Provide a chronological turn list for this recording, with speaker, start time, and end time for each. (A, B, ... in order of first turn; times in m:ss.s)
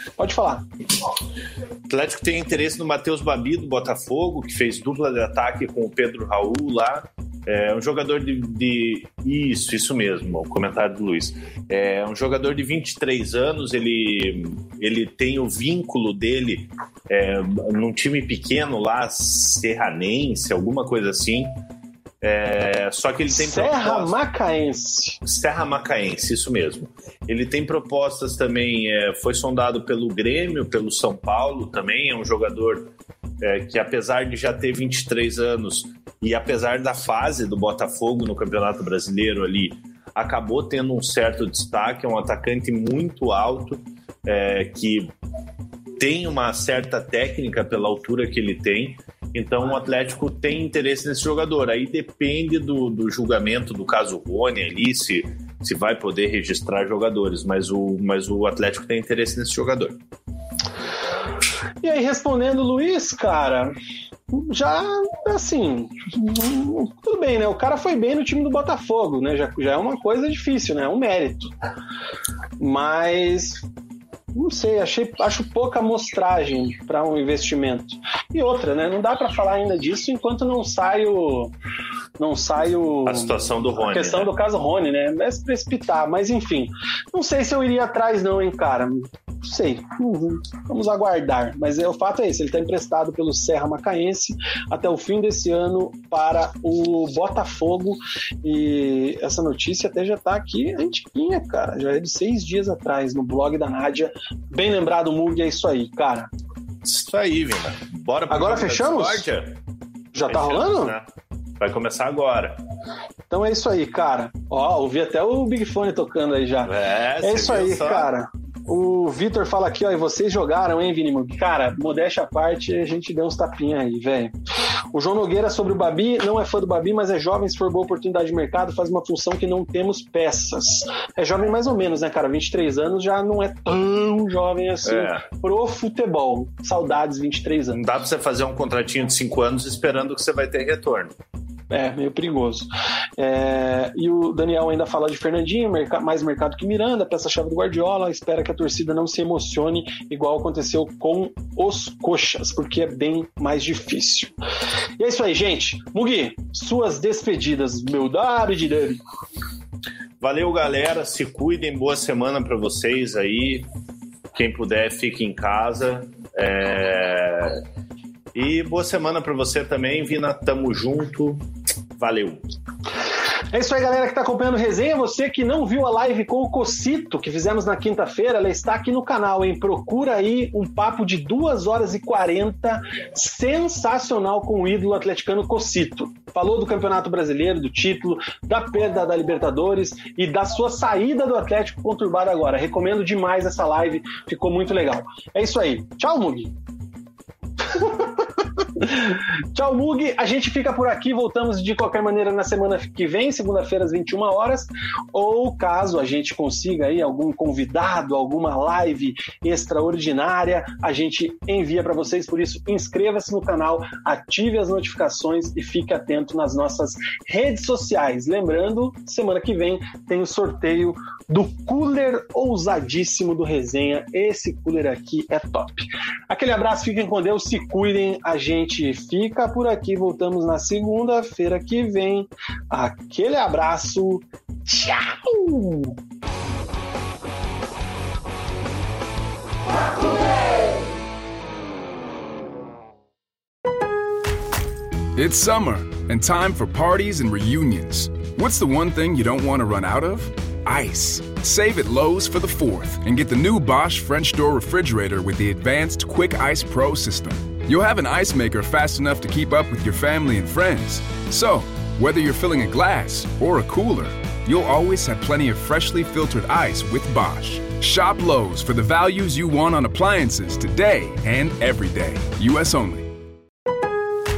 0:00.2-0:00.6 A
0:01.9-0:21.5 B
0:22.2-0:24.2 B
0:23.3-0:25.2 A
0:25.2-0:45.1 B
0:46.0-1:00.0 B
1:01.8-1:03.7 A
1:04.3-1:11.5 A
1:12.6-1:13.6 A
1:14.3-1:21.5 A
1:22.2-1:46.3 A
1:23.0-1:24.3 B
1:46.8-1:49.6 B
1:48.3-1:49.2 A
1:50.1-1:51.0 A
1:50.3-1:51.1 B
1:51.6-1:52.6 B
1:53.3-2:04.3 A
1:56.6-1:58.1 B
2:04.9-2:17.8 A
2:14.8-2:15.2 B
2:17.7-2:21.1 B
2:21.7-2:34.3 A
2:35.0-2:39.0 A
2:40.2-2:43.7 B
2:44.3-2:47.6 B
2:48.3-2:51.4 B
2:52.0-2:52.4 B
2:53.5-3:16.5 A
3:17.7-3:18.1 A
3:18.8-3:55.9 A
4:05.2-4:33.1 C